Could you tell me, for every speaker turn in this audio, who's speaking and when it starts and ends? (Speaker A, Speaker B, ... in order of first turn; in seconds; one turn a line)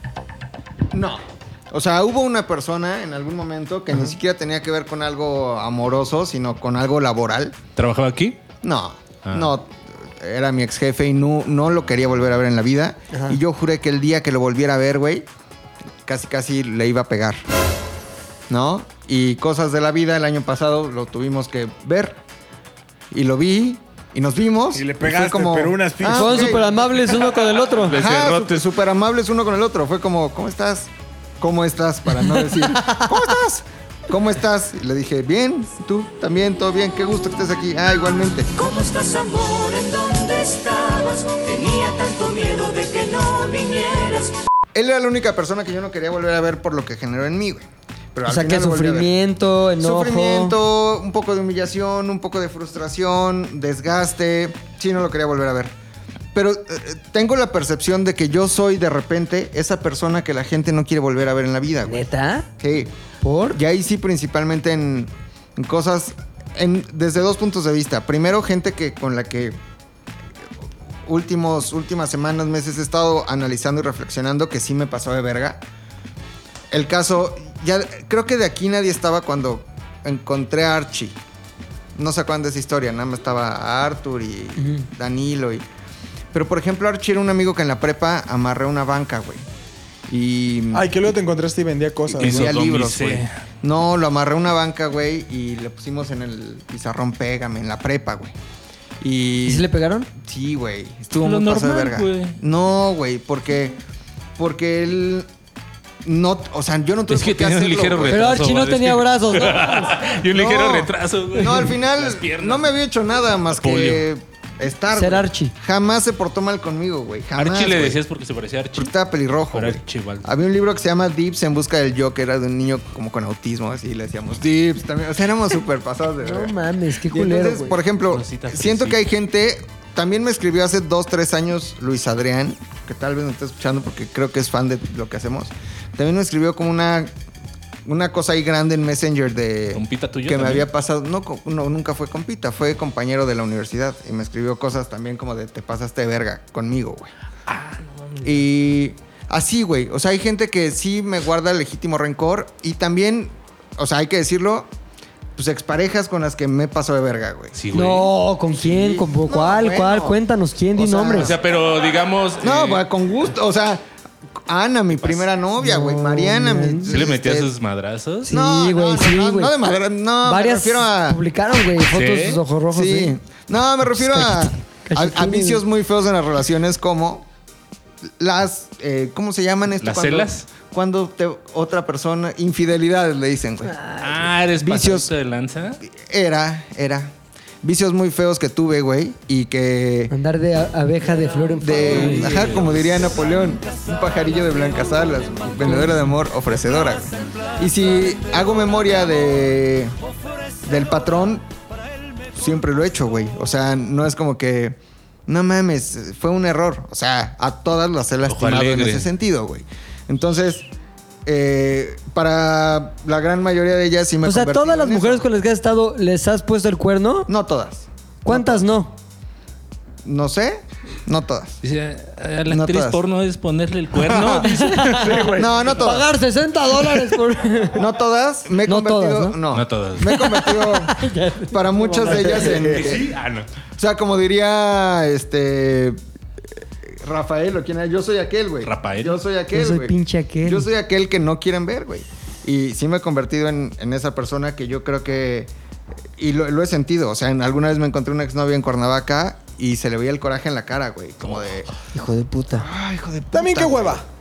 Speaker A: 0.9-7.6
Speaker B: 7.8-8.4
Speaker A: 8.6-15.3
Speaker B: 9.3-9.5
Speaker C: 13.1-13.4
Speaker A: 16.1-17.4
Speaker A: 18.5-22.2
Speaker A: 23.1-26.6
Speaker D: 24.7-27.2
Speaker C: 26.1-28.0
Speaker B: 27.9-28.6
Speaker A: 27.9-38.5
Speaker C: 32.2-33.2
Speaker E: 38.5-44.3
Speaker A: 44.7-49.1
Speaker C: 48.3-50.6
Speaker A: 49.8-55.7
Speaker A: 56.3-62.1
Speaker C: 61.9-62.5
Speaker A: 62.6-62.9
Speaker C: 63.2-63.6
Speaker A: 63.5-69.6
Speaker A: 71.1-75.6
Speaker A: 76.7-81.2
Speaker A: 82.0-85.6
Speaker C: 84.6-84.9
Speaker A: 86.3-89.5
Speaker A: 90.1-90.9
Speaker D: 90.7-92.5
Speaker A: 92.1-98.4
Speaker B: 92.2-93.3
Speaker A: 99.0-103.8
Speaker C: 99.5-100.1
Speaker B: 101.2-102.4
Speaker A: 104.4-105.3
Speaker A: 106.0-108.4
Speaker B: 107.1-112.7
Speaker C: 108.1-110.0
Speaker A: 110.2-118.0
Speaker B: 113.5-114.0
Speaker C: 114.9-115.5
Speaker B: 117.4-118.9
Speaker A: 118.8-126.5
Speaker B: 119.5-120.3
Speaker C: 126.2-127.8
Speaker A: 127.1-137.1
Speaker B: 128.1-129.0
Speaker A: 137.8-147.1
Speaker B: 139.7-140.7
Speaker B: 147.5-148.4
Speaker A: 148.2-154.7
Speaker A: 155.4-157.6
Speaker B: 157.6-158.1
Speaker C: 157.7-161.3
Speaker A: 158.5-160.2
Speaker A: 160.8-161.4
Speaker B: 161.1-162.8
Speaker A: 162.4-163.8
Speaker A: 164.5-167.5
Speaker B: 165.0-165.3
Speaker C: 165.6-167.0
Speaker B: 166.9-168.3
Speaker C: 168.2-169.5
Speaker A: 168.3-171.2
Speaker C: 170.2-173.2
Speaker B: 171.9-172.4
Speaker A: 172.7-177.3
Speaker C: 173.9-175.6
Speaker A: 178.1-183.8
Speaker B: 179.8-180.5
Speaker C: 183.7-184.1
Speaker B: 184.0-185.8
Speaker A: 184.6-185.1
Speaker A: 185.8-190.1
Speaker C: 190.1-192.5
Speaker A: 191.6-199.9
Speaker B: 191.9-192.9
Speaker C: 195.6-195.9
Speaker A: 200.6-201.4
Speaker A: 202.3-210.7
Speaker B: 208.3-209.1
Speaker A: 211.3-215.2
Speaker C: 214.2-217.3
Speaker A: 217.3-218.6
Speaker C: 218.2-218.9
Speaker A: 220.0-221.6
Speaker B: 221.6-225.0
Speaker A: 222.5-223.0
Speaker A: 224.0-224.4
Speaker D: 224.1-225.6
Speaker C: 224.4-227.8
Speaker A: 225.3-226.1
Speaker A: 227.8-231.0
Speaker C: 228.7-229.4
Speaker B: 229.5-230.1
Speaker C: 230.1-232.6
Speaker A: 231.5-233.1
Speaker B: 232.3-233.5
Speaker D: 232.4-232.9
Speaker A: 233.8-236.0
Speaker A: 236.9-245.5
Speaker B: 238.7-239.2
Speaker C: 239.5-240.7
Speaker A: 246.2-251.7
Speaker C: 251.9-252.7
Speaker A: 252.5-254.0
Speaker D: 253.3-254.1